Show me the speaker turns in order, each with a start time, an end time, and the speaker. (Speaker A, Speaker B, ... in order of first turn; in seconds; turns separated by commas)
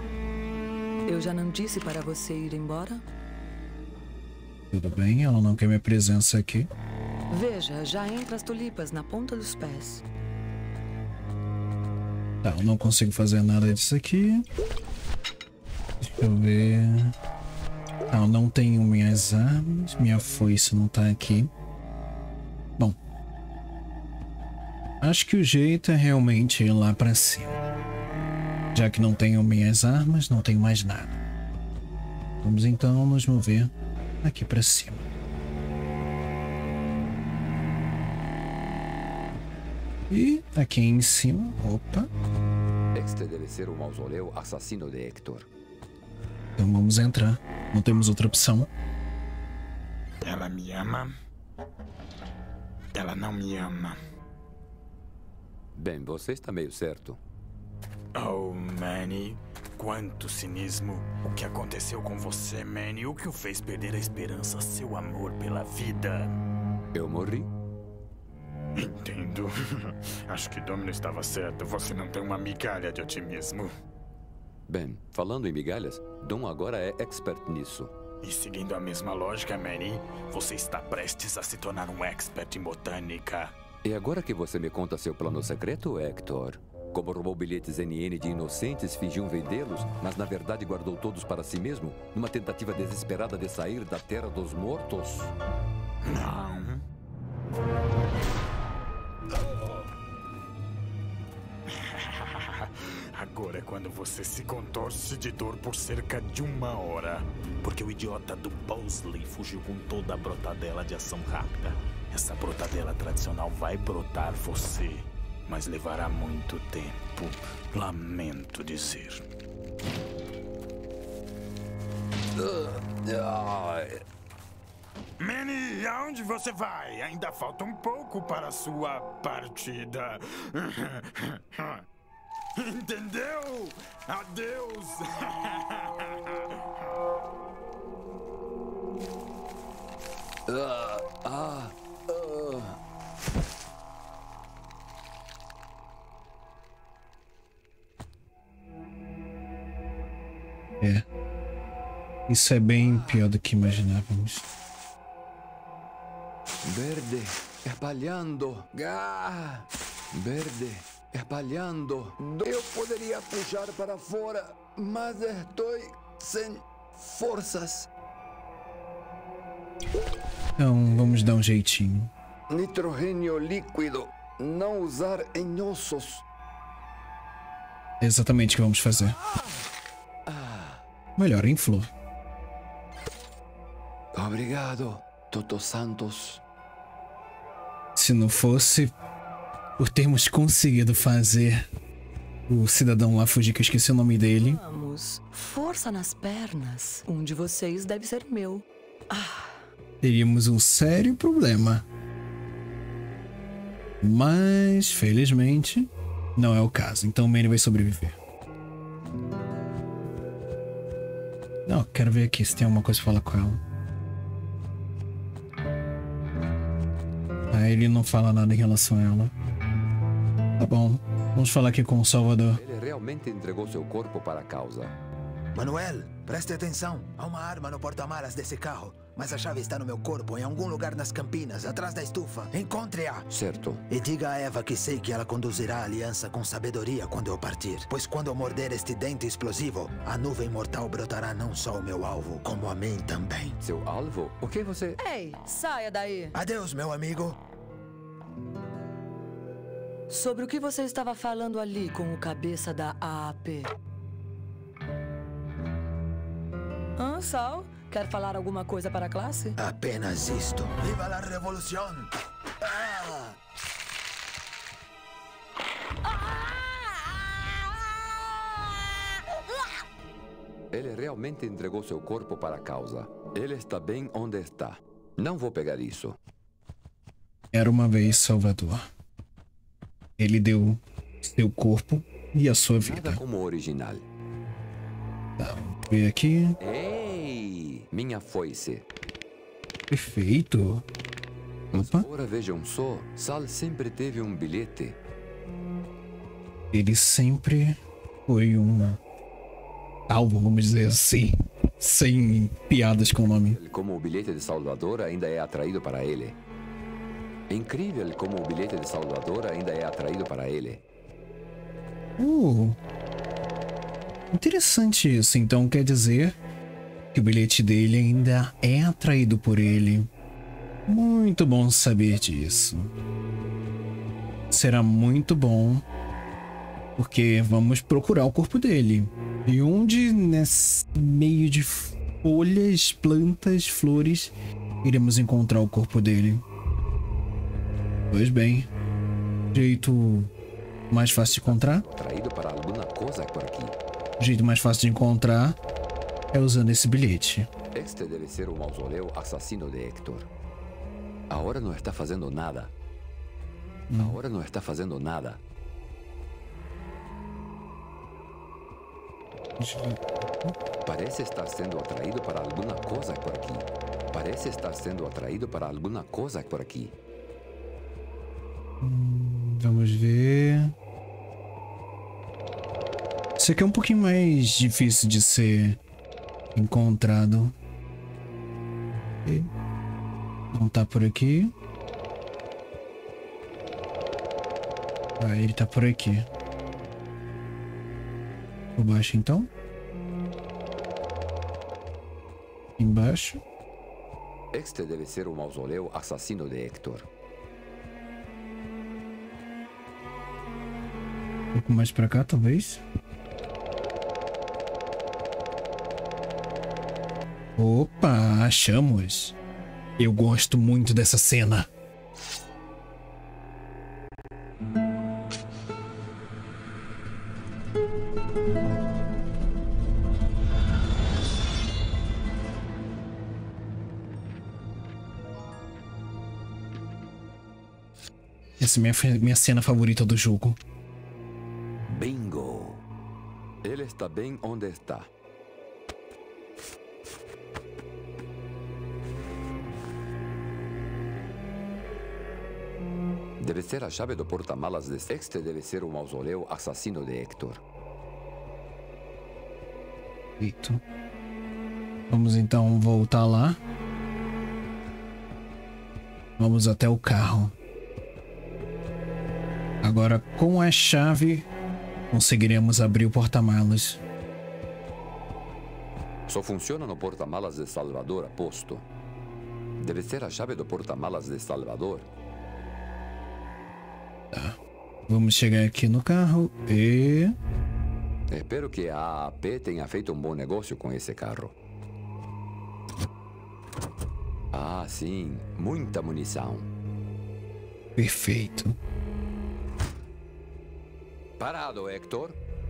Speaker A: 1.1-3.0, Speaker B: 4.7-6.7, Speaker A: 7.3-10.0, Speaker B: 12.4-14.4, Speaker B: 16.0-17.1, Speaker B: 18.1-21.5, Speaker B: 25.0-27.6, Speaker B: 28.7-31.2, Speaker B: 32.4-33.7, Speaker B: 34.2-35.0, Speaker B: 40.1-42.1, Speaker C: 42.9-45.5, Speaker B: 46.6-48.7, Speaker D: 50.2-51.1, Speaker D: 52.9-54.0, Speaker C: 55.8-57.2, Speaker D: 58.2-66.3, Speaker C: 66.9-67.5, Speaker D: 68.8-73.7, Speaker C: 74.7-77.9, Speaker D: 78.2-83.5, Speaker C: 83.8-95.3, Speaker D: 96.0-96.8, Speaker D: 101.7-119.2, Speaker C: 122.4-124.0, Speaker D: 125.2-131.8, Speaker D: 132.6-136.5, Speaker C: 140.5-142.8, Speaker B: 150.8-151.1, Speaker B: 152.3-154.4, Speaker C: 156.6-167.9, Speaker B: 170.6-172.1, Speaker C: 172.5-176.2, Speaker B: 178.0-179.2, Speaker C: 180.3-180.8, Speaker B: 181.2-181.9, Speaker C: 184.1-186.4, Speaker B: 188.0-188.9, Speaker B: 189.8-191.6, Speaker B: 192.5-194.6, Speaker A: 194.4-199.6, Speaker B: 200.0-201.8, Speaker B: 204.0-208.2, Speaker B: 211.7-213.6, Speaker B: 217.5-219.3, Speaker B: 220.6-222.6, Speaker C: 222.6-225.0, Speaker E: 225.5-233.3, Speaker C: 233.3-233.8, Speaker E: 233.9-243.6, Speaker C: 243.6-245.0, Speaker A: 245.0-246.3, Speaker E: 246.3-247.4, Speaker A: 250.1-253.7, Speaker A: 257.0-259.6, Speaker E: 259.6-263.3, Speaker C: 270.7-276.2, Speaker B: 277.5-278.9, Speaker B: 280.2-283.2, Speaker C: 282.8-284.0, Speaker B: 285.4-286.6, Speaker C: 286.6-288.8, Speaker B: 289.9-290.9, Speaker C: 291.7-295.0, Speaker B: 291.7-292.1, Speaker B: 296.7-299.0, Speaker B: 300.1-303.6, Speaker C: 303.0-306.4, Speaker C: 307.5-310.8, Speaker B: 312.2-312.8, Speaker B: 314.3-316.4, Speaker B: 317.1-320.1, Speaker B: 320.9-322.9, Speaker B: 324.5-325.9, Speaker B: 327.0-336.4, Speaker B: 338.1-338.7, Speaker B: 339.5-340.3, Speaker B: 340.9-341.9, Speaker C: 341.1-343.8, Speaker B: 344.2-345.6, Speaker B: 346.3-347.5, Speaker C: 347.7-350.3, Speaker C: 351.3-352.7, Speaker B: 353.9-354.2, Speaker C: 354.0-355.4, Speaker B: 359.6-360.5, Speaker C: 360.8-366.9, Speaker B: 368.8-370.7, Speaker B: 373.4-375.8, Speaker B: 376.5-377.6, Speaker B: 379.2-379.5, Speaker B: 380.5-381.5, Speaker B: 385.2-386.3, Speaker B: 388.8-389.5, Speaker B: 392.8-393.4, Speaker C: 394.5-397.1, Speaker B: 401.5-402.8, Speaker B: 407.6-409.4, Speaker B: 410.0-411.7, Speaker B: 428.6-430.6, Speaker C: 431.9-432.8, Speaker C: 433.6-435.1, Speaker C: 443.4-447.6, Speaker B: 450.4-450.8, Speaker B: 452.1-453.6, Speaker B: 456.4-457.6, Speaker B: 459.8-461.5, Speaker B: 462.1-464.0, Speaker C: 466.3-468.9, Speaker C: 469.8-472.1, Speaker B: 474.3-477.4, Speaker C: 478.3-481.6, Speaker C: 484.5-486.7, Speaker B: 488.0-488.8, Speaker C: 491.4-492.4